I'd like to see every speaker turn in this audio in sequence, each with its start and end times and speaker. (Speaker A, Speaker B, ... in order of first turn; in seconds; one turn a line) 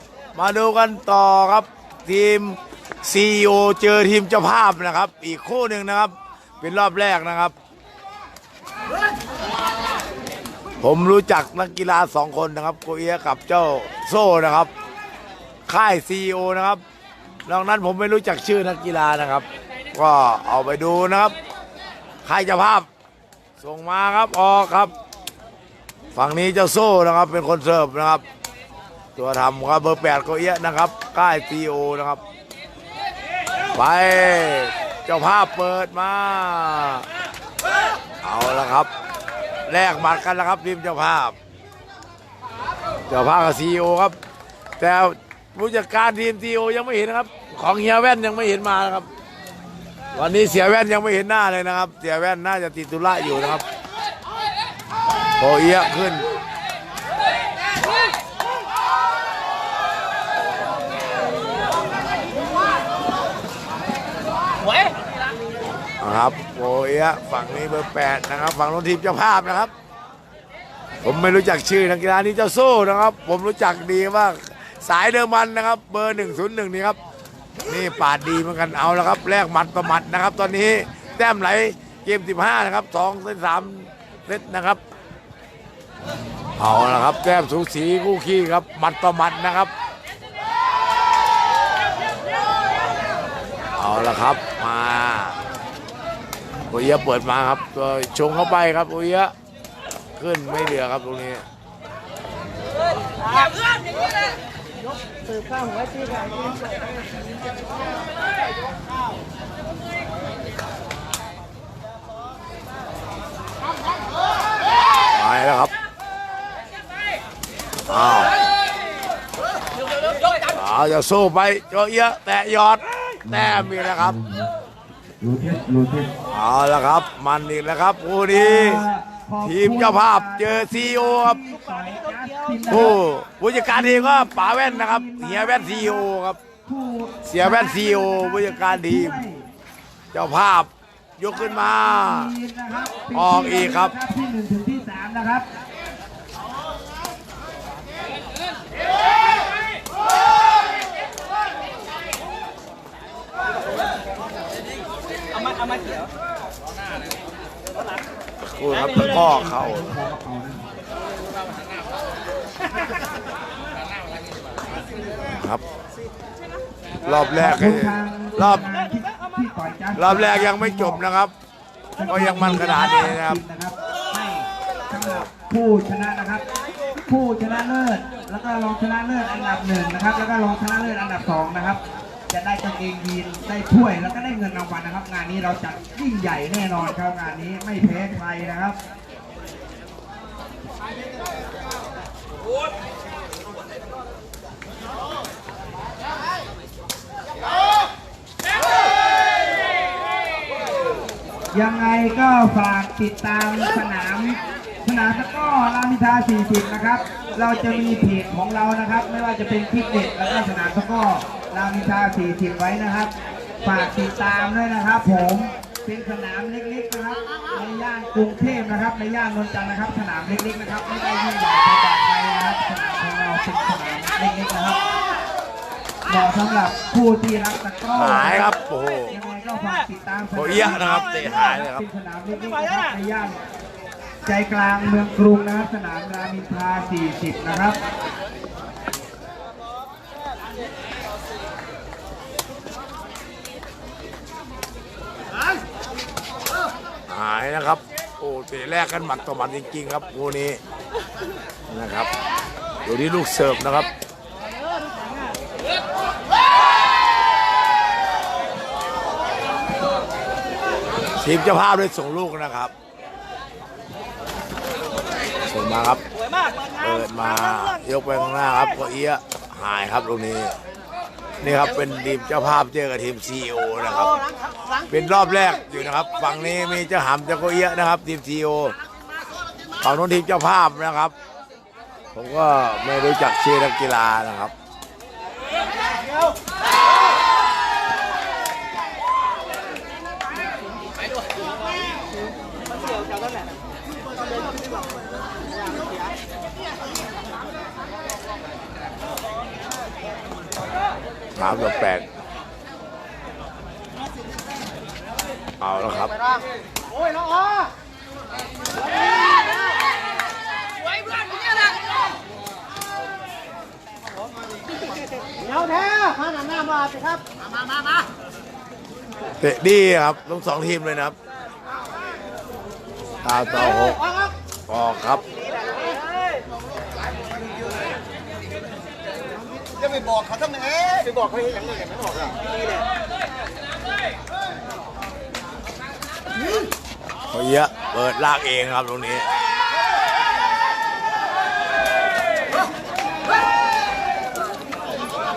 Speaker A: 0.3-7.5
Speaker A: 10.8-14.7
Speaker A: 15.7-16.8
Speaker A: 17.5-21.3
Speaker A: 22.2-22.9
Speaker A: 23.6-24.9
Speaker A: 26.1-28.2
Speaker A: 29.1-32.2
Speaker A: 33.7-37.0
Speaker A: 38.2-38.9
Speaker A: 39.6-41.4
Speaker A: 43.1-44.1
Speaker A: 44.8-49.1
Speaker A: 50.1-53.6
Speaker A: 55.4-56.3
Speaker A: 66.0-69.7
Speaker A: 71.0-77.0
Speaker A: 77.7-84.8
Speaker A: 86.6-89.7
Speaker A: 93.8-95.4
Speaker A: 96.7-99.3
Speaker A: 100.2-101.4
Speaker B: 105.3-106.4
Speaker A: 115.1-115.7
Speaker A: 117.9-118.3
Speaker A: 120.5-124.2
Speaker C: 125.2-126.1
Speaker A: 126.3-128.8
Speaker C: 128.3-133.0
Speaker A: 129.4-131.4
Speaker B: 131.7-132.6
Speaker A: 132.7-136.4
Speaker C: 133.7-136.1
Speaker C: 136.6-139.5
Speaker A: 137.2-139.2
Speaker A: 140.1-142.3
Speaker C: 141.3-145.4
Speaker A: 143.1-143.9
Speaker B: 155.4-156.0
Speaker A: 158.4-159.9
Speaker C: 158.7-160.7
Speaker A: 165.3-165.6
Speaker A: 167.0-168.7
Speaker C: 167.3-171.0
Speaker A: 169.9-171.3
Speaker C: 172.0-176.4
Speaker A: 172.0-173.4
Speaker A: 175.0-175.3
Speaker C: 177.0-188.8
Speaker C: 201.5-213.1
Speaker C: 213.6-224.9
Speaker C: 226.1-228.5
Speaker A: 227.9-229.1
Speaker C: 229.1-233.4
Speaker A: 230.3-231.8
Speaker C: 234.2-237.8
Speaker A: 247.1-250.6
Speaker A: 251.7-252.1
Speaker A: 252.8-253.9
Speaker A: 261.2-262.7
Speaker A: 265.5-266.0
Speaker B: 266.2-266.9
Speaker A: 266.8-270.5
Speaker A: 271.4-274.1
Speaker A: 274.9-278.8
Speaker A: 279.8-281.1
Speaker A: 282.1-284.5
Speaker B: 292.9-293.4
Speaker A: 301.4-302.1
Speaker A: 305.6-306.2
Speaker B: 315.7-317.1
Speaker A: 319.4-321.1
Speaker A: 323.2-324.0
Speaker A: 324.7-325.2
Speaker A: 337.3-339.3